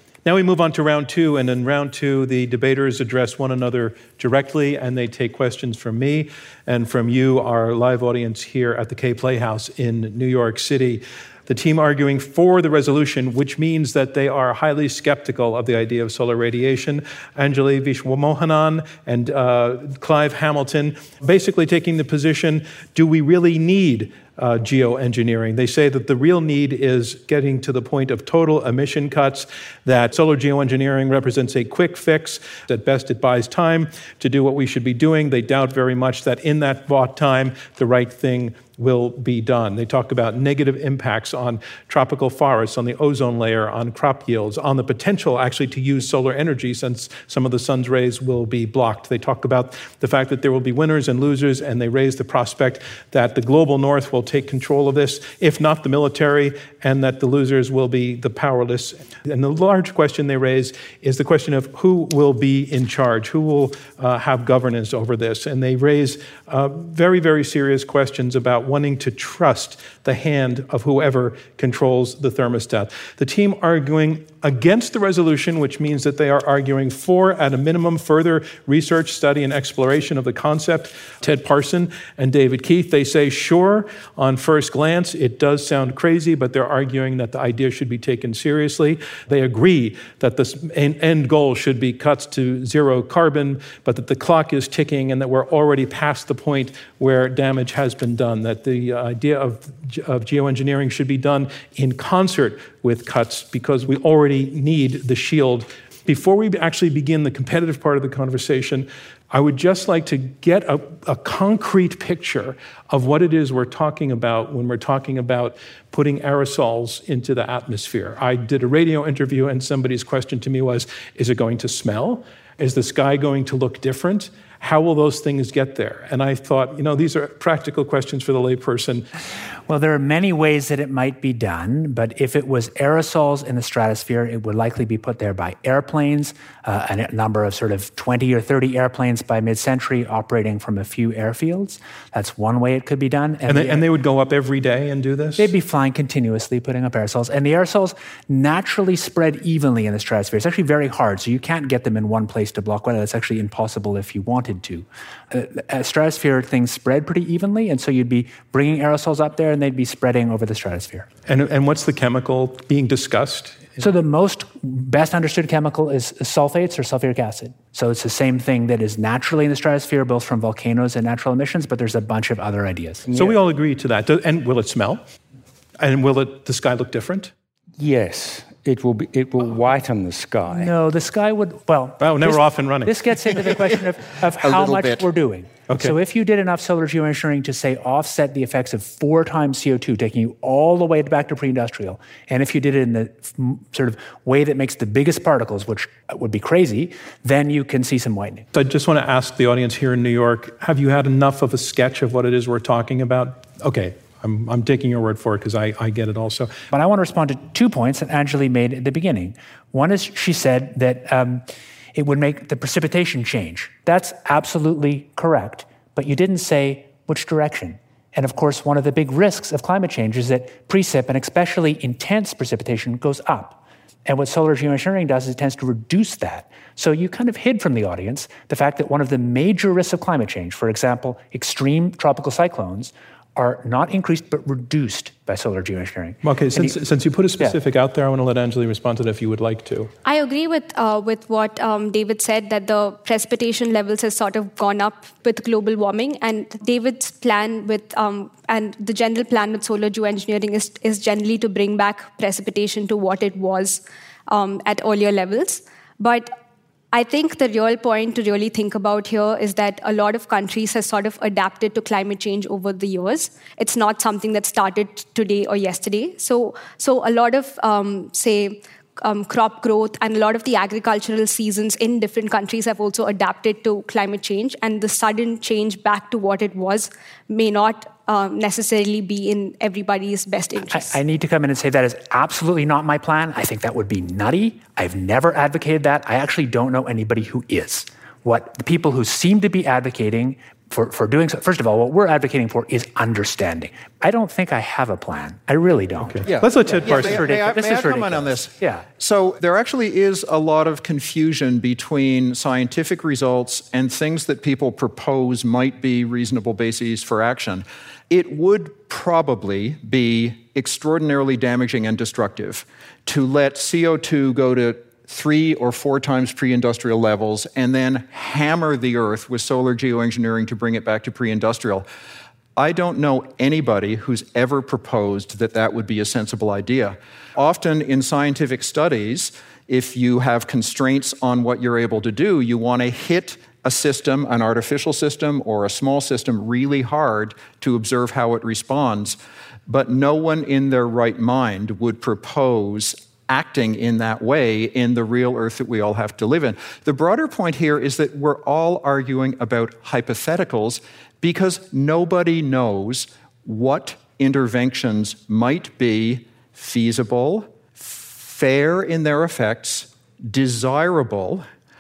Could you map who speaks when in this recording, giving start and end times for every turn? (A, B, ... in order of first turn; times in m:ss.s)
0:00.2-2:09.1 A
2:09.7-2:23.8 B
2:23.5-2:25.5 A
2:25.4-2:41.1 B
2:41.3-2:43.8 A
2:43.8-2:53.1 B
2:53.2-2:55.0 A
2:55.8-2:57.3 A
2:57.8-3:00.7 C
3:00.5-3:18.5 B
3:02.0-3:03.0 A
3:04.4-3:05.0 D
3:05.7-3:06.0 A
3:18.5-3:26.5 A
3:26.7-3:56.7 B
3:56.2-3:59.9 A
4:00.0-4:16.3 E
4:16.9-4:41.0 E
4:40.7-4:58.9 B
4:56.1-4:57.2 A
4:56.3-5:21.8 D
5:22.6-6:01.4 D